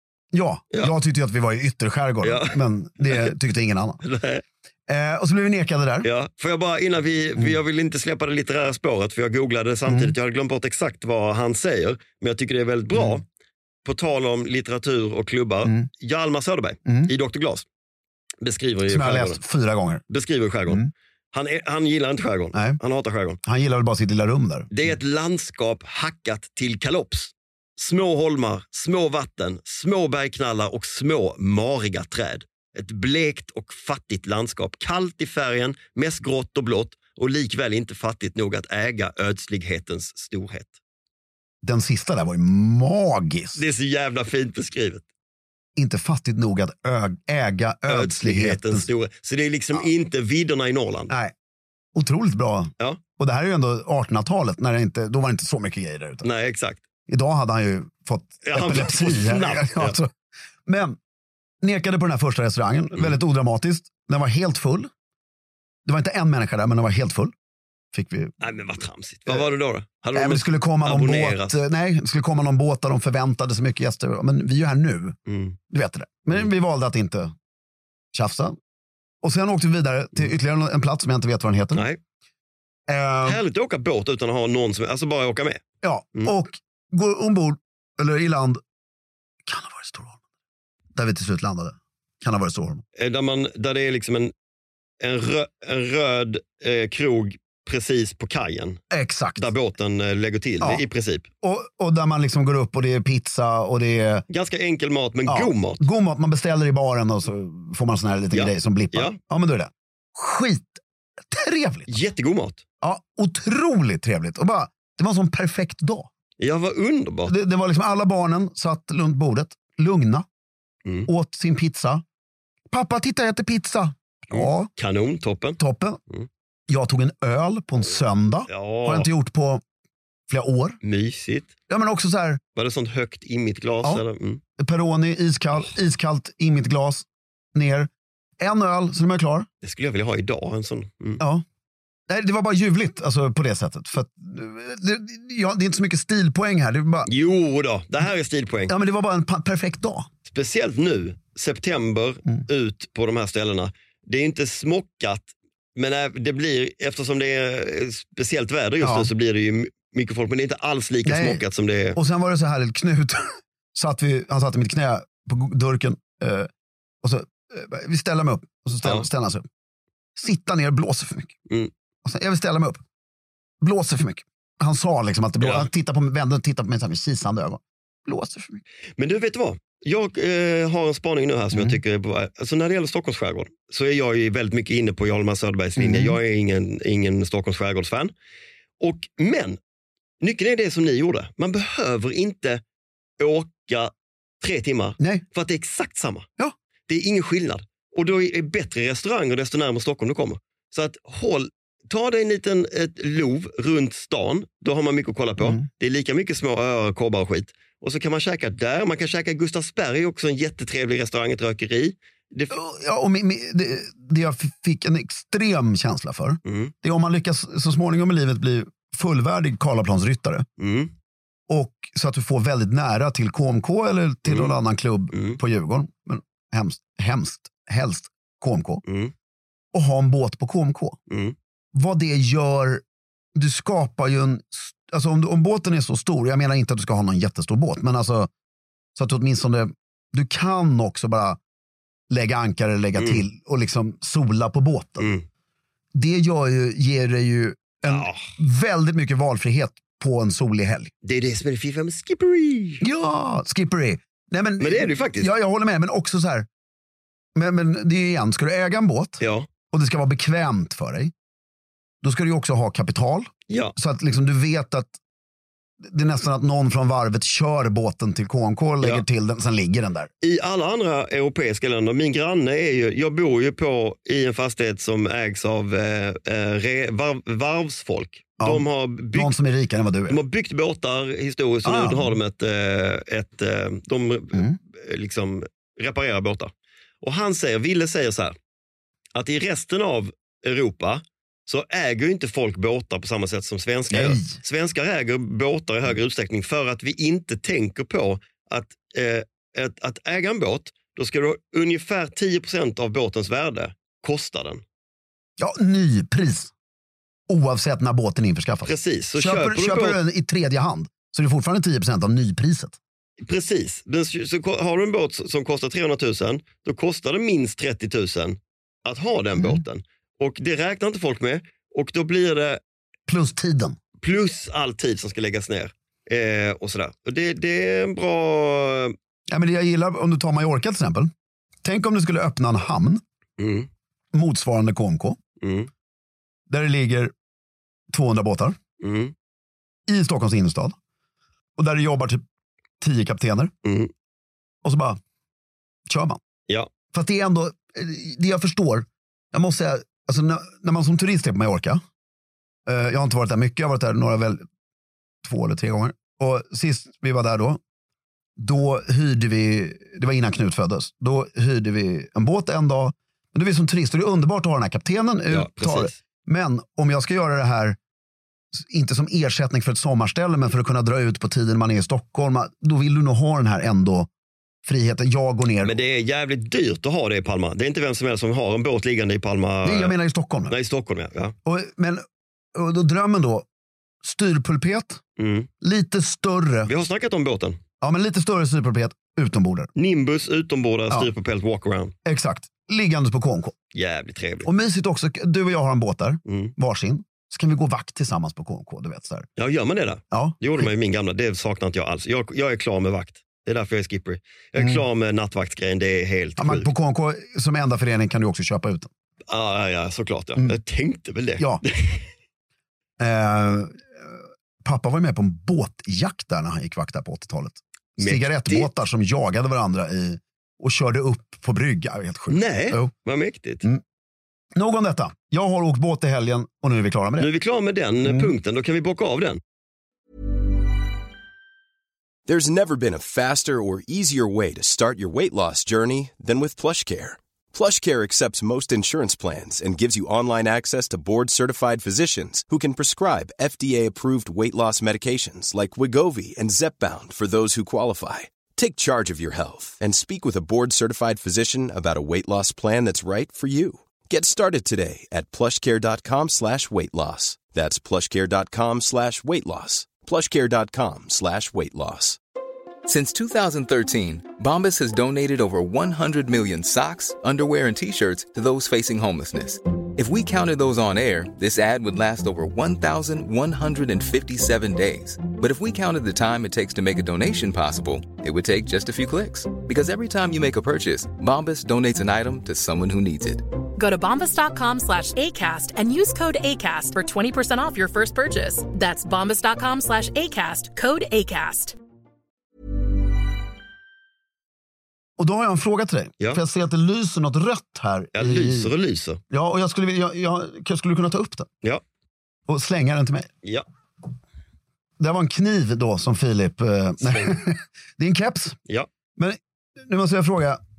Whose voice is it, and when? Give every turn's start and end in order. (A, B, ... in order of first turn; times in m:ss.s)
0:00.3-0:04.0 A
0:02.2-0:02.6 B
0:04.0-0:04.4 B
0:04.9-0:06.1 A
0:06.0-0:13.2 B
0:09.9-0:10.1 A
0:12.9-0:13.2 A
0:13.8-0:17.6 B
0:16.9-0:17.1 A
0:18.4-0:19.4 B
0:18.9-0:20.0 A
0:20.1-0:23.4 B
0:22.5-0:22.8 A
0:23.4-0:24.7 A
0:24.7-0:40.7 B
0:41.6-0:43.6 A
0:43.6-0:45.0 B
0:45.8-0:48.9 A
0:47.9-0:51.1 B
0:51.1-0:51.3 A
0:51.9-0:56.3 A
0:56.2-0:56.8 B
0:57.1-1:00.1 A
0:58.4-1:00.0 B
1:00.6-1:01.0 A
1:01.6-1:04.9 A
1:05.8-1:07.3 A
1:07.9-1:08.3 A
1:08.4-1:11.6 B
1:10.1-1:15.2 A
1:15.3-1:15.6 B
1:15.7-1:17.3 A
1:18.1-1:18.6 A
1:19.2-1:21.8 A
1:22.9-1:23.4 A
1:23.2-1:25.6 B
1:25.8-1:28.6 A
1:29.4-1:30.2 A
1:30.9-1:32.8 A
1:33.0-1:34.3 B
1:35.0-1:38.8 B
1:38.9-1:39.5 A
1:39.4-1:41.3 B
1:41.4-1:44.2 A
1:44.3-1:45.8 B
1:45.3-1:51.9 A
1:48.3-1:49.2 B
1:51.9-1:52.6 B
1:52.8-1:56.1 A
1:56.4-1:57.3 B
1:57.3-2:00.2 A
2:01.1-2:02.0 A
2:02.7-2:04.7 A
2:04.3-2:05.6 B
2:05.6-2:06.0 A
2:06.7-2:09.6 A
2:08.5-2:09.1 B
2:10.3-2:10.8 A
2:10.8-2:11.5 B
2:11.7-2:12.4 A
2:12.6-2:14.4 B
2:14.6-2:17.9 A
2:18.4-2:19.5 A
2:19.6-2:21.2 B
2:21.2-2:21.4 A
2:22.1-2:27.1 A
2:27.1-2:28.7 B
2:28.7-2:30.1 A
2:30.3-2:42.0 B
2:38.8-2:39.1 A
2:41.0-2:41.4 A
2:42.0-2:46.5 A
2:47.0-2:49.4 A
2:50.2-2:51.3 A
2:52.0-2:52.8 A
2:53.6-2:58.6 A
2:55.4-2:55.7 B
2:59.0-3:08.1 B
3:01.5-3:01.8 A
3:05.8-3:06.2 A
3:08.8-3:09.6 B
3:10.2-3:12.6 B
3:13.2-3:13.9 B
3:14.4-3:16.3 B
3:16.9-3:32.5 B
3:25.4-3:25.7 A
3:32.5-3:40.5 A
3:36.4-3:36.7 B
3:40.6-3:40.9 B
3:41.5-3:48.8 A
3:44.3-3:44.5 B
3:45.1-3:45.4 B
3:48.8-3:49.1 B
3:49.7-3:51.0 A
3:51.1-3:51.3 B
3:51.7-3:52.8 A
3:53.3-3:58.3 A
3:59.0-4:01.4 A
4:02.1-4:05.1 A
4:03.0-4:03.2 B
4:05.9-4:10.9 A
4:07.8-4:08.3 B
4:11.0-4:12.8 B
4:12.8-4:16.5 A
4:14.6-4:15.3 B
4:17.3-4:21.1 A
4:19.2-4:19.5 B
4:22.0-4:24.9 A
4:23.5-4:23.7 B
4:25.8-4:30.1 A
4:30.2-4:39.4 B
4:38.4-4:40.2 A
4:40.1-4:46.5 B
4:41.6-4:42.2 A
4:47.0-4:48.4 B
4:49.1-5:04.6 B
4:53.9-4:54.4 A
5:05.4-5:06.5 A
5:07.3-5:12.8 A
5:08.6-5:10.0 B
5:13.2-5:22.6 B
5:19.4-5:19.6 A
5:23.1-5:23.8 A
5:24.0-5:28.9 B
5:29.3-5:31.1 A
5:31.6-5:33.0 A
5:33.4-5:33.7 B
5:34.1-5:35.2 A
5:35.4-5:35.7 B
5:36.5-5:37.1 A
5:37.9-5:38.6 A
5:38.8-5:39.1 B
5:39.9-5:40.8 A
5:41.6-5:42.2 A
5:42.8-5:43.5 A
5:43.6-5:43.9 B
5:44.6-5:45.0 A
5:45.9-5:46.2 A
5:46.9-5:51.8 A
5:52.7-5:54.4 A
5:55.2-5:57.6 A
5:58.4-6:07.8 A
6:05.3-6:05.9 B
6:08.5-6:14.1 A
6:14.6-6:15.8 A
6:15.6-6:19.9 B
6:19.6-6:20.5 A
6:20.5-6:21.3 B
6:21.4-6:22.0 A
6:22.5-6:23.4 A
6:24.0-6:25.0 A
6:25.2-6:25.5 B
6:25.6-6:26.7 A
6:26.7-6:27.6 B
6:27.8-6:29.7 A
6:29.8-6:31.9 B
6:32.0-6:33.6 A
6:33.7-6:34.5 B
6:34.4-6:39.3 A
6:36.2-6:36.5 B
6:39.4-6:46.7 B
6:40.1-6:40.7 A
6:44.6-6:44.8 A
6:46.4-6:48.9 A
6:49.3-6:52.0 B
6:53.0-7:02.9 A
6:58.0-6:58.7 B
7:02.3-7:03.6 B
7:04.5-7:07.3 A
7:07.2-7:09.4 B
7:08.0-7:08.3 A
7:12.2-7:42.2 C
7:42.8-8:03.4 D
8:03.8-8:11.8 E
8:15.2-8:18.7 A
8:18.1-8:19.2 B
8:19.3-8:21.5 A
8:22.5-8:23.3 A
8:25.0-8:28.6 A
8:27.0-8:27.4 B
8:29.2-8:30.6 A